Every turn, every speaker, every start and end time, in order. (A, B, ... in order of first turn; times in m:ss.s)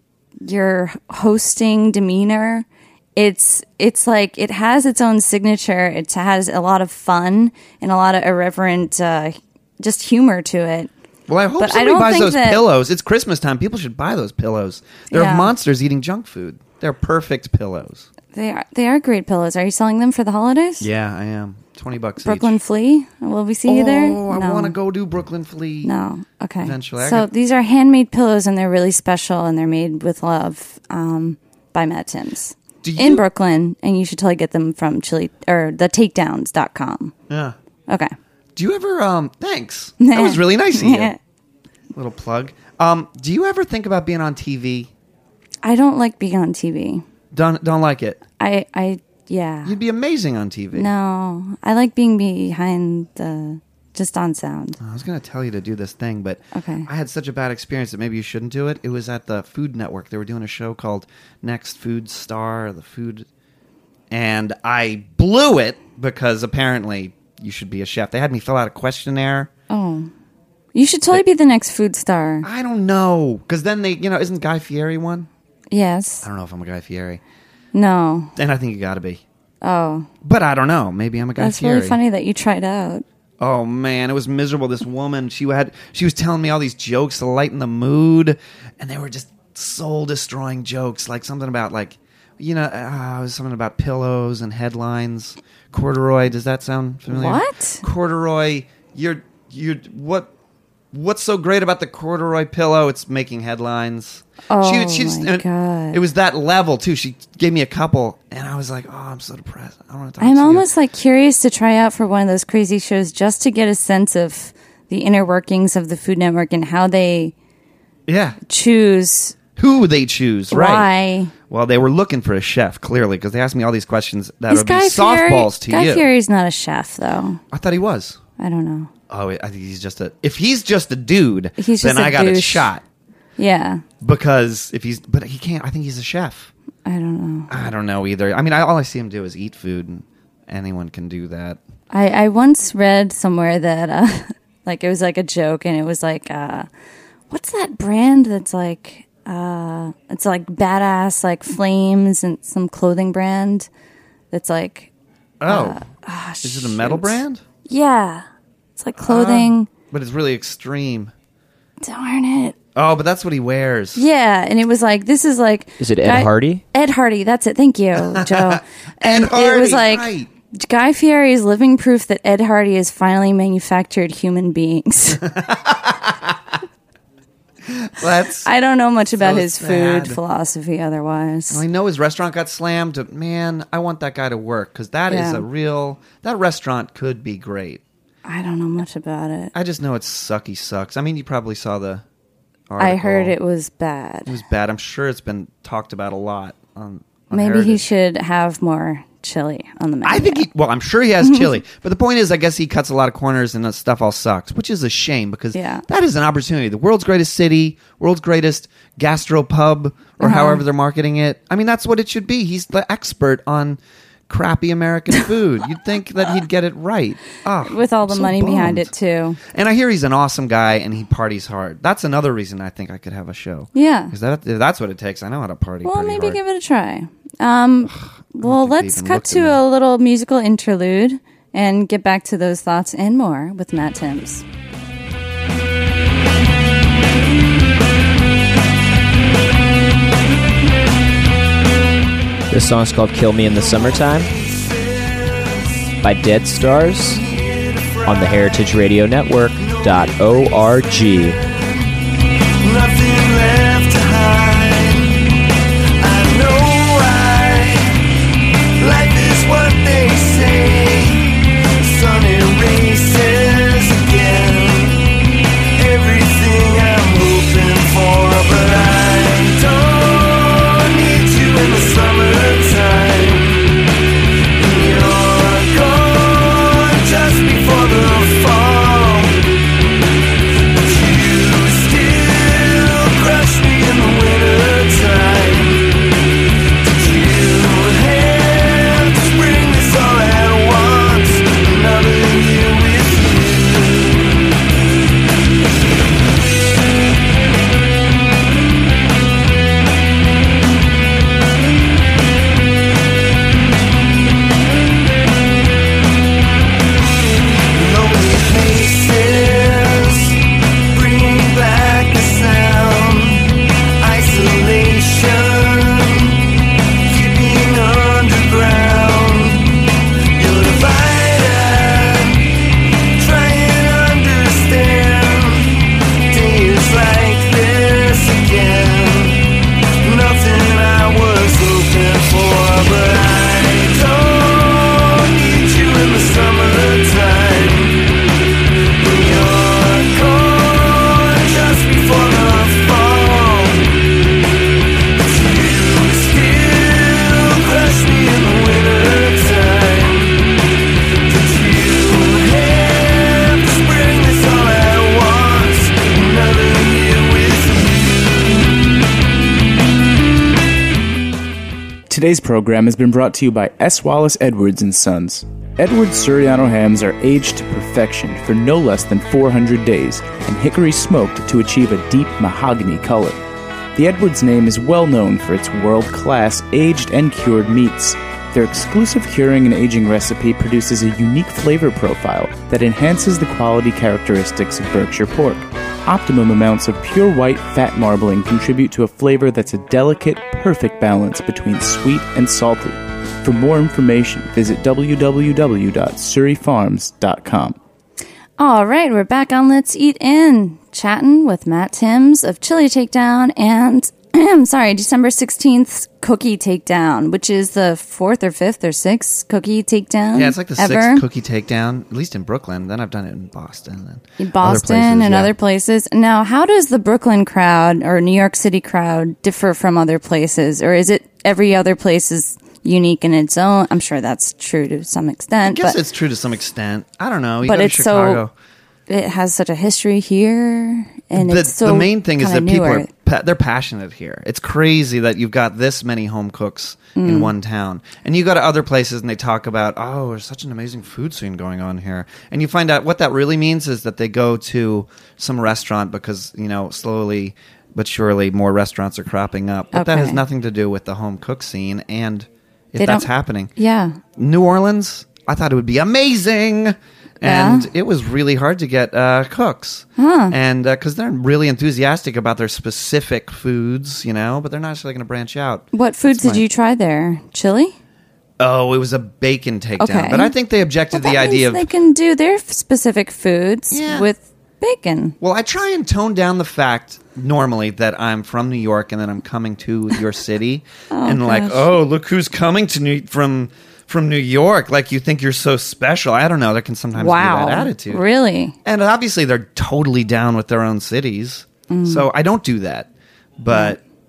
0:00.4-0:10.9 A
0:11.3-0:18.1 B
0:11.6-0:12.6 A
0:15.1-0:15.5 A
0:18.3-0:20.9 A
0:20.8-0:22.6 B
0:22.2-0:24.7 A
0:23.7-0:25.9 B
0:25.8-0:37.1 A
0:26.6-0:27.3 B
0:32.8-0:33.2 B
0:37.3-0:37.5 B
0:37.9-0:38.1 A
0:38.6-0:41.1 B
0:40.0-0:41.2 A
0:41.9-0:44.9 B
0:45.6-0:47.0 A
0:47.3-0:48.2 B
0:48.4-0:49.8 A
0:49.6-0:50.9 B
0:50.7-0:54.8 A
0:54.8-1:03.3 B
0:56.5-0:56.9 A
1:04.1-1:09.5 B
1:09.7-1:10.1 A
1:10.7-1:12.5 A
1:12.4-1:15.3 B
1:15.7-1:16.2 A
1:16.2-1:17.2 B
1:17.7-1:18.3 A
1:18.4-1:19.2 B
1:19.6-1:20.1 A
1:20.2-1:22.0 B
1:21.4-1:23.0 A
1:23.4-1:40.3 B
1:37.1-1:37.8 A
1:40.9-1:50.7 B
1:44.5-1:46.0 A
1:50.2-1:57.3 A
1:58.1-1:58.4 B
1:58.4-1:59.4 A
1:59.6-2:00.9 B
2:00.5-2:01.3 A
2:01.5-2:06.0 B
2:04.5-2:07.4 A
2:07.5-2:08.2 B
2:08.4-2:08.9 A
2:09.1-2:12.8 B
2:11.6-2:12.7 A
2:13.4-2:13.8 A
2:14.0-2:16.5 B
2:16.8-2:17.5 A
2:17.5-2:21.6 B
2:21.9-2:26.7 A
2:27.3-2:33.7 A
2:34.3-2:34.9 A
2:35.4-2:35.8 B
2:35.5-2:38.2 A
2:36.4-2:37.4 B
2:38.8-2:39.7 A
2:39.0-2:41.1 B
2:41.8-2:42.6 A
2:42.7-2:44.0 B
2:43.9-2:55.2 A
2:45.8-2:46.6 C
2:48.0-2:50.3 B
2:55.1-2:56.5 B
2:57.6-2:58.5 B
2:58.4-3:01.6 A
2:59.2-3:00.2 B
3:01.5-3:07.8 B
3:05.1-3:05.4 A
3:08.2-3:09.5 A
3:09.5-3:12.0 B
3:12.7-3:13.3 B
3:12.8-3:14.3 A
3:14.2-3:17.8 B
3:17.3-3:20.5 A
3:20.0-3:38.9 B
3:21.2-3:21.5 A
3:25.5-3:25.8 A
3:30.2-3:30.6 A
3:37.6-3:39.4 A
3:39.4-3:46.4 B
3:43.7-3:44.1 A
3:45.8-3:54.4 A
3:47.9-3:49.6 B
4:02.5-4:04.3 C
4:03.4-4:05.9 D
4:06.0-4:07.2 C
4:06.8-4:08.7 D
4:08.0-4:11.4 C
4:09.5-4:11.5 D
4:12.6-4:15.3 D
4:16.0-4:18.0 D
4:18.8-4:25.0 D
4:25.8-4:33.7 D
4:34.6-4:39.4 D
4:40.7-4:45.9 D
4:46.8-4:54.3 D
5:07.7-5:10.4 D
5:10.9-5:16.4 D
5:17.0-5:22.5 D
5:23.2-5:29.4 D
5:30.0-5:38.1 D
5:39.0-5:44.0 D
5:45.2-5:50.4 D
5:51.2-5:58.5 D
6:02.1-6:13.4 E
6:13.9-6:37.8 E
6:38.6-6:51.2 A
6:50.3-6:55.5 B
6:54.4-7:06.0 A
7:05.6-7:08.5 B
7:07.6-7:08.4 A
7:09.1-7:13.1 A
7:11.3-7:33.7 B
7:17.2-7:17.5 A
7:29.9-7:30.4 A
7:33.0-7:34.2 A
7:34.4-7:46.6 B
7:37.4-7:37.9 A
7:40.2-7:40.6 A
7:45.9-7:48.0 A
7:48.6-7:51.8 B
7:50.0-7:50.5 A
7:51.1-7:55.4 A
7:53.9-7:54.3 B
7:55.4-8:08.2 B
8:01.1-8:01.9 A
8:07.1-8:08.8 A
8:08.8-8:14.0 B
8:11.9-8:12.3 A
8:13.7-8:14.0 A